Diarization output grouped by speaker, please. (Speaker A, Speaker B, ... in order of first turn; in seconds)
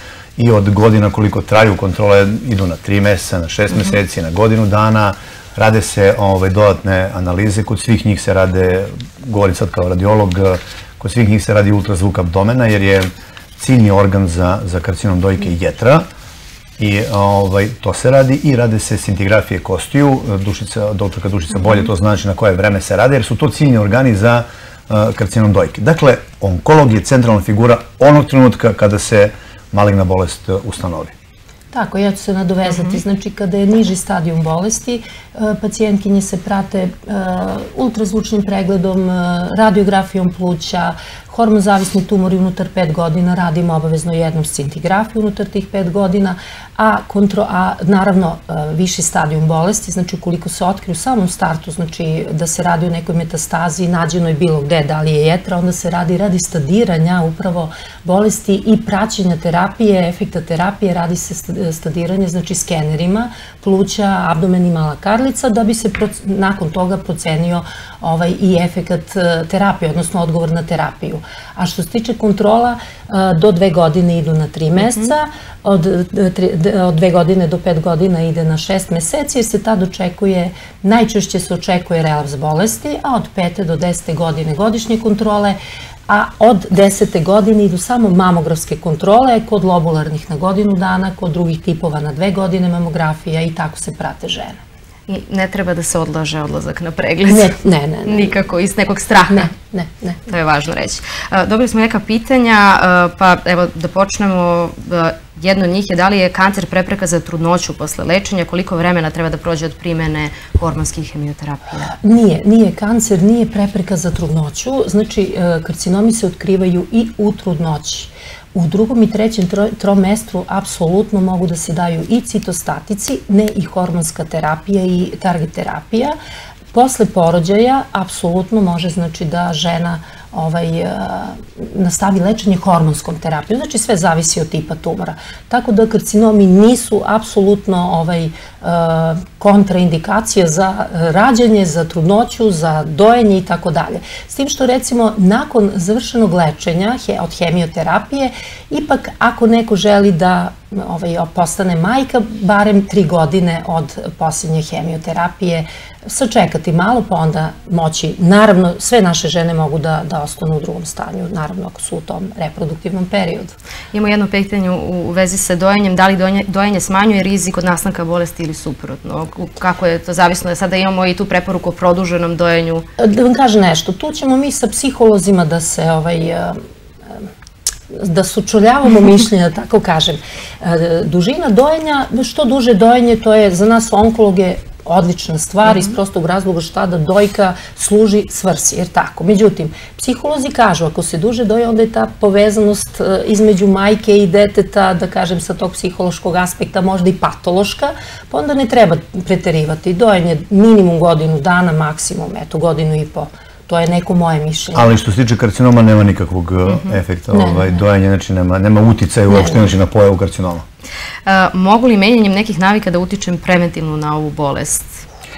Speaker A: 0.4-16.1, 16.8-31.1, 204.8-210.6
Speaker B: 31.7-94.6, 97.3-98.4, 99.3-100.2, 112.0-126.2, 126.7-163.5, 173.0-176.6, 177.9-204.9, 207.3-207.8, 209.3-209.6
Speaker C: 95.1-99.5, 100.3-112.0, 163.9-172.9, 211.3-215.0